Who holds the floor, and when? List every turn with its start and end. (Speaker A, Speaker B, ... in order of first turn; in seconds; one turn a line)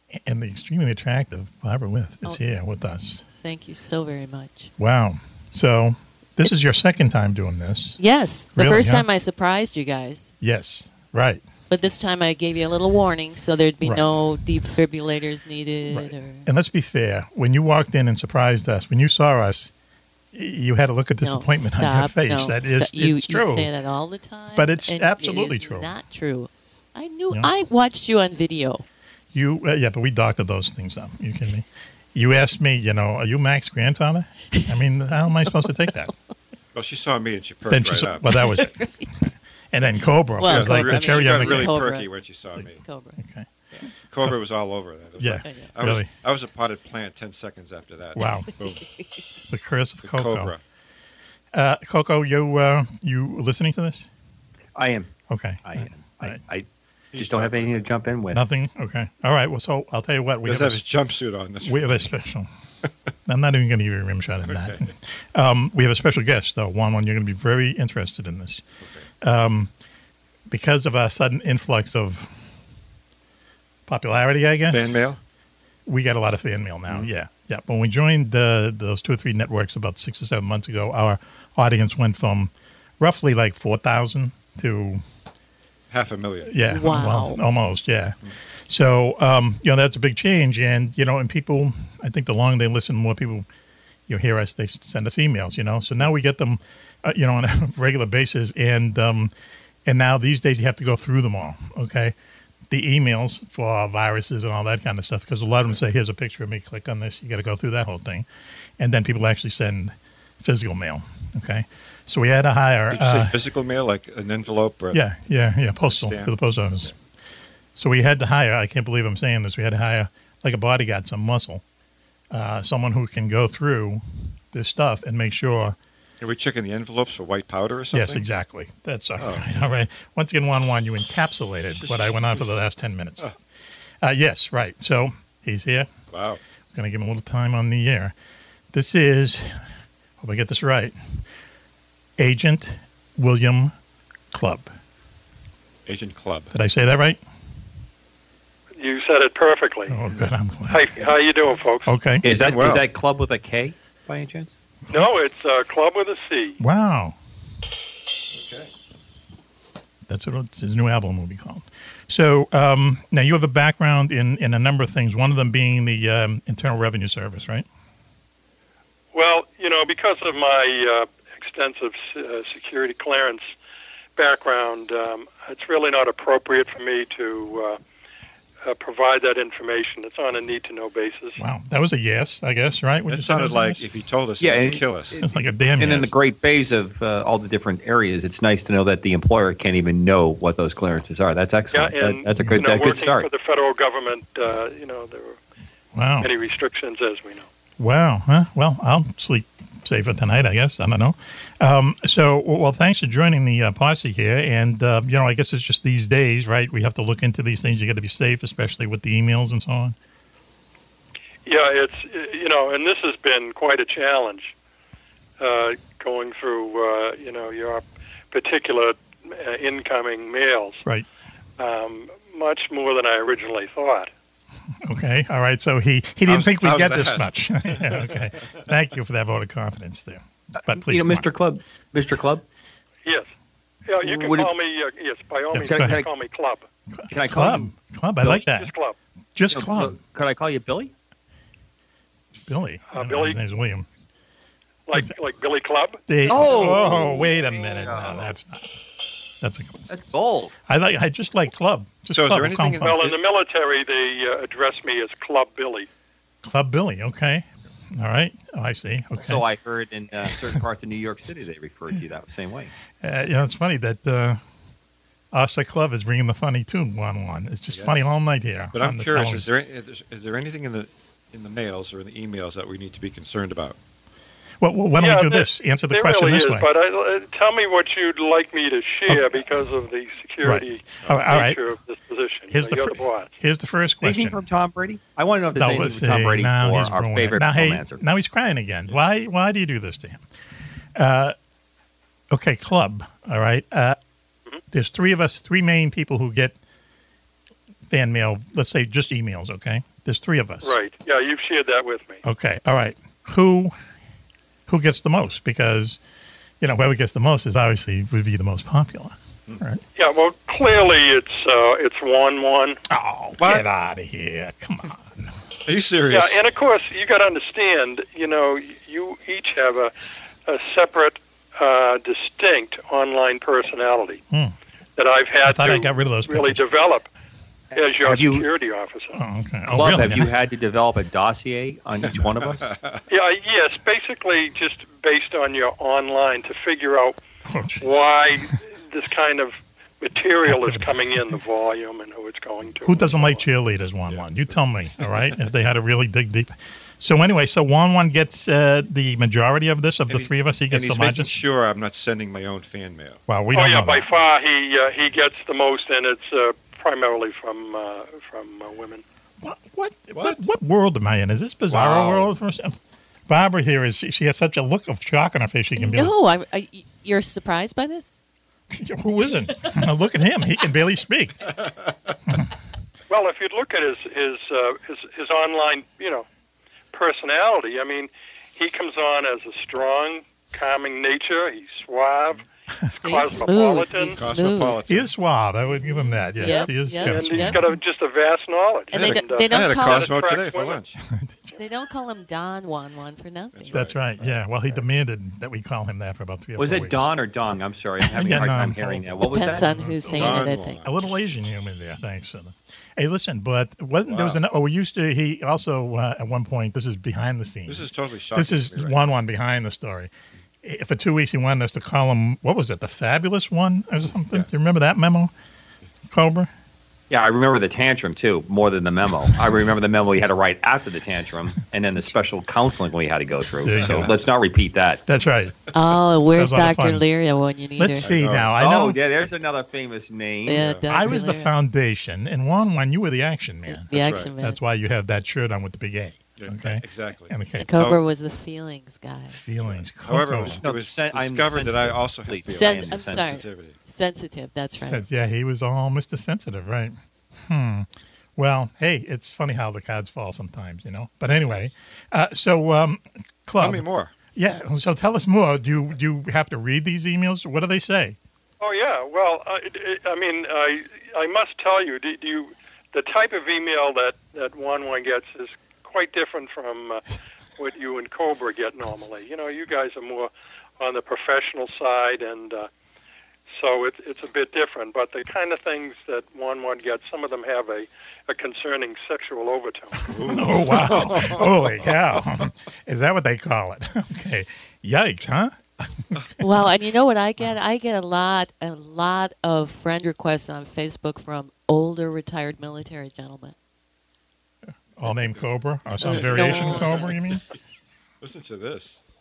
Speaker A: 0.2-3.2
Speaker B: 3.4-4.7
Speaker A: 4.8-8.0
Speaker B: 8.0-10.3
Speaker A: 8.5-9.1
Speaker A: 10.4-11.4
Speaker B: 11.7-16.5
Speaker A: 15.9-19.7
Speaker A: 20.3-23.7
Speaker B: 21.2-28.8
Speaker A: 24.5-25.9
Speaker A: 29.3-36.1
Speaker B: 35.4-36.1
Speaker C: 36.7-38.3
Speaker A: 37.7-41.8
Speaker B: 38.2-39.1
Speaker B: 40.4-42.1
Speaker C: 40.4-42.8
Speaker B: 42.7-43.2
Speaker A: 43.2-43.5
Speaker C: 44.1-48.8
Speaker A: 45.2-46.1
Speaker B: 45.4-45.7
Speaker A: 48.1-48.5
Speaker A: 49.5-50.5
Speaker C: 50.0-50.6
Speaker A: 51.5-54.1
Speaker D: 54.7-58.4
Speaker A: 55.3-56.4
Speaker C: 57.1-57.9
Speaker A: 58.3-60.8
Speaker C: 60.4-62.0
Speaker A: 61.6-62.5
Speaker A: 63.3-68.6
Speaker C: 64.5-64.9
Speaker C: 68.8-69.0
Speaker A: 69.2-69.7
Speaker A: 70.5-72.3
Speaker A: 73.9-75.1
Speaker C: 74.7-75.2
Speaker A: 75.8-85.0
Speaker C: 85.9-86.5
Speaker A: 86.5-88.2
Speaker B: 86.7-87.4
Speaker A: 88.7-93.5
Speaker A: 94.1-99.3
Speaker A: 99.8-102.1
Speaker A: 102.7-108.2
Speaker A: 108.8-113.4
Speaker C: 112.9-115.0
Speaker A: 114.9-116.9
Speaker C: 115.8-116.9
Speaker A: 117.7-121.6
Speaker A: 122.3-124.0
Speaker A: 124.5-125.8
Speaker C: 126.2-128.2
Speaker A: 127.9-133.3
Speaker C: 129.2-129.7
Speaker C: 131.7-132.6
Speaker A: 134.0-135.9
Speaker C: 136.1-136.4
Speaker A: 136.7-138.1
Speaker A: 138.7-139.5
Speaker A: 140.2-140.9
Speaker A: 142.2-143.7
Speaker A: 144.3-144.7
Speaker C: 145.8-146.5
Speaker A: 146.5-147.2
Speaker E: 148.8-150.0
Speaker A: 149.9-150.8
Speaker E: 150.7-151.9
Speaker A: 151.9-152.2
Speaker D: 152.2-154.5
Speaker C: 152.2-152.8
Speaker E: 154.9-156.6
Speaker A: 156.6-157.1
Speaker C: 158.3-158.7
Speaker A: 160.1-167.7
Speaker E: 169.1-173.5
Speaker E: 174.2-177.8
Speaker E: 178.6-181.4
Speaker A: 181.4-183.8
Speaker C: 183.1-185.2
Speaker D: 184.4-185.3
Speaker A: 185.2-186.1
Speaker D: 185.8-193.3
Speaker E: 191.7-195.4
Speaker A: 195.9-196.3
Speaker E: 196.2-197.5
Speaker A: 197.8-209.9
Speaker E: 211.4-214.5
Speaker E: 215.4-220.8
Speaker E: 221.6-224.1
Speaker A: 224.8-231.3
Speaker C: 226.2-228.6
Speaker D: 230.7-232.4
Speaker E: 233.9-236.7
Speaker D: 234.0-234.5
Speaker A: 235.5-236.0
Speaker D: 235.6-236.1
Speaker A: 236.9-238.7
Speaker D: 237.1-238.4
Speaker E: 238.4-238.9
Speaker A: 239.3-240.0
Speaker D: 239.5-240.9
Speaker A: 242.4-243.8
Speaker E: 242.9-243.4
Speaker E: 244.9-246.0
Speaker A: 246.1-248.7
Speaker D: 246.2-248.3
Speaker A: 249.4-250.0
Speaker D: 249.9-250.5
Speaker A: 250.7-253.1
Speaker C: 252.1-253.2
Speaker E: 252.8-255.9
Speaker A: 256.4-259.4
Speaker D: 259.2-262.7
Speaker A: 263.0-264.4
Speaker A: 265.3-269.4
Speaker C: 267.7-268.1
Speaker C: 268.7-273.8
Speaker A: 274.6-276.7
Speaker E: 275.0-283.3
Speaker A: 279.1-279.4
Speaker A: 280.4-281.6
Speaker C: 281.0-281.3
Speaker A: 282.5-284.4
Speaker D: 284.0-288.0
Speaker A: 285.6-290.2
Speaker A: 290.9-291.3
Speaker A: 292.3-294.0
Speaker A: 294.7-296.6
Speaker A: 297.9-300.7
Speaker E: 300.6-302.2
Speaker A: 302.2-303.7
Speaker A: 304.7-306.0
Speaker A: 306.6-309.8
Speaker E: 310.0-312.8
Speaker A: 312.9-315.3
Speaker C: 313.4-313.6
Speaker C: 315.6-316.4
Speaker E: 316.1-319.9
Speaker E: 320.5-324.2
Speaker E: 325.0-327.1
Speaker A: 325.4-326.6
Speaker D: 327.7-328.5
Speaker E: 327.7-329.2
Speaker A: 329.1-330.3
Speaker D: 329.7-332.7
Speaker C: 332.0-333.0
Speaker E: 333.1-337.2
Speaker A: 337.4-337.9
Speaker E: 337.8-343.4
Speaker A: 340.4-341.3
Speaker A: 342.8-351.4
Speaker C: 344.1-345.3
Speaker C: 350.1-353.2
Speaker A: 353.3-354.1
Speaker E: 353.5-359.0
Speaker A: 359.4-362.8
Speaker C: 360.1-360.4
Speaker C: 361.7-362.3
Speaker A: 363.3-366.1
Speaker B: 365.8-368.1
Speaker A: 368.7-371.5
Speaker E: 373.1-376.2
Speaker E: 376.9-382.4
Speaker B: 383.0-384.8
Speaker E: 383.0-384.2
Speaker C: 384.1-385.1
Speaker A: 384.9-387.7
Speaker B: 385.7-387.8
Speaker E: 387.0-390.8
Speaker B: 388.9-390.1
Speaker C: 388.9-391.0
Speaker A: 391.1-391.5
Speaker B: 391.5-393.9
Speaker C: 393.5-394.8
Speaker A: 393.7-397.1
Speaker D: 396.6-399.7
Speaker A: 398.1-410.1
Speaker B: 399.2-400.8
Speaker C: 399.7-400.9
Speaker C: 404.1-404.4
Speaker C: 407.7-409.1
Speaker A: 410.6-415.3
Speaker A: 416.1-416.5
Speaker D: 417.1-425.0
Speaker A: 423.6-424.1
Speaker C: 423.8-424.1
Speaker A: 425.1-425.7
Speaker B: 425.7-428.1
Speaker A: 426.3-427.1
Speaker A: 427.8-429.0
Speaker C: 428.0-428.6
Speaker D: 428.5-430.7
Speaker B: 430.4-431.5
Speaker C: 430.5-430.9
Speaker A: 430.9-437.7
Speaker B: 433.7-434.6
Speaker C: 433.9-434.3
Speaker C: 436.4-438.0
Speaker B: 437.6-439.4
Speaker A: 439.3-440.6
Speaker C: 439.6-443.8
Speaker D: 440.6-443.4
Speaker B: 442.5-445.0
Speaker A: 444.8-446.9
Speaker A: 447.5-458.2
Speaker C: 453.6-454.1
Speaker E: 458.6-467.0
Speaker E: 467.6-472.7
Speaker E: 473.5-480.1
Speaker A: 480.0-486.2
Speaker C: 480.1-482.4
Speaker B: 486.4-493.5
Speaker A: 495.0-497.4
Speaker C: 495.0-495.4
Speaker C: 496.0-497.2
Speaker B: 496.0-497.2
Speaker C: 498.2-499.0